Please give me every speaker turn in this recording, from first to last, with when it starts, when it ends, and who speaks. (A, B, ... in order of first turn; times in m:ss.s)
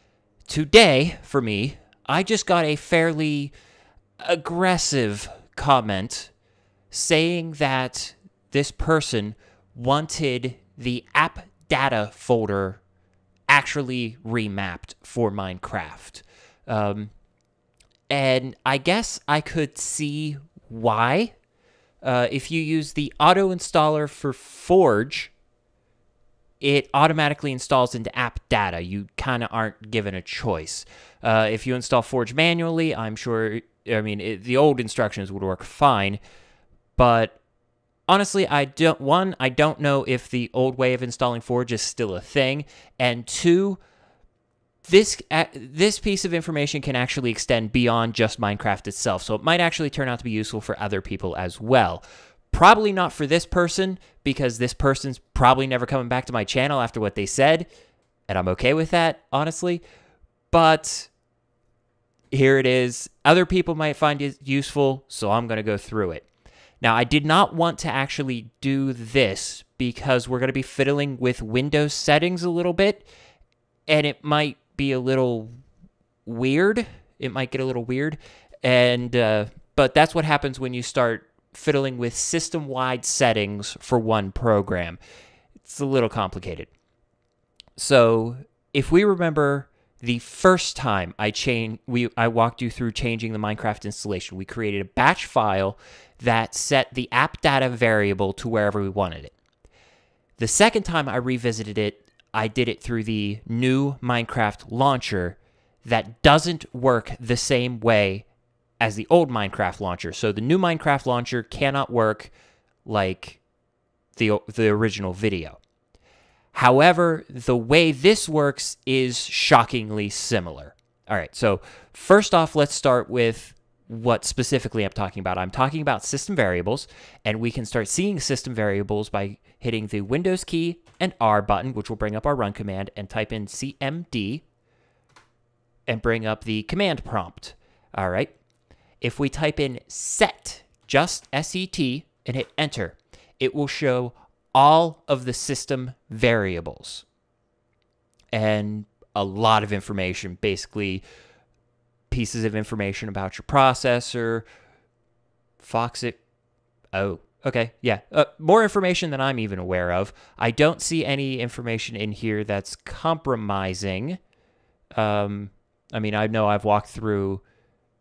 0:00.5-0:03.5 A
0:04.2-0:06.3 A
0:06.9-0:12.8 A
0:13.5-0:17.1 A
0:18.1-0:21.4 A
0:22.0-0:25.3 A
0:26.6-0:36.2 A
0:37.0-0:37.4 A
0:38.1-0:43.8 A
0:44.8-0:57.7 A
0:58.3-0:59.8 A
1:00.5-1:01.1 A
1:02.3-1:06.3 A
1:06.8-1:13.1 A
1:13.9-1:15.5 A
1:16.2-1:25.0 A
1:25.6-1:26.7 A
1:27.8-1:39.3 A
1:40.4-1:48.3 A
1:48.8-1:52.3 A
1:52.9-1:53.4 A
1:54.2-1:55.6 A
1:56.5-2:14.4 A
2:15.9-2:18.3 A
2:19.0-2:27.1 A
2:28.3-2:31.0 A
2:32.1-2:34.5 A
2:35.6-2:36.2 A
2:36.9-2:44.2 A
2:45.0-2:47.4 A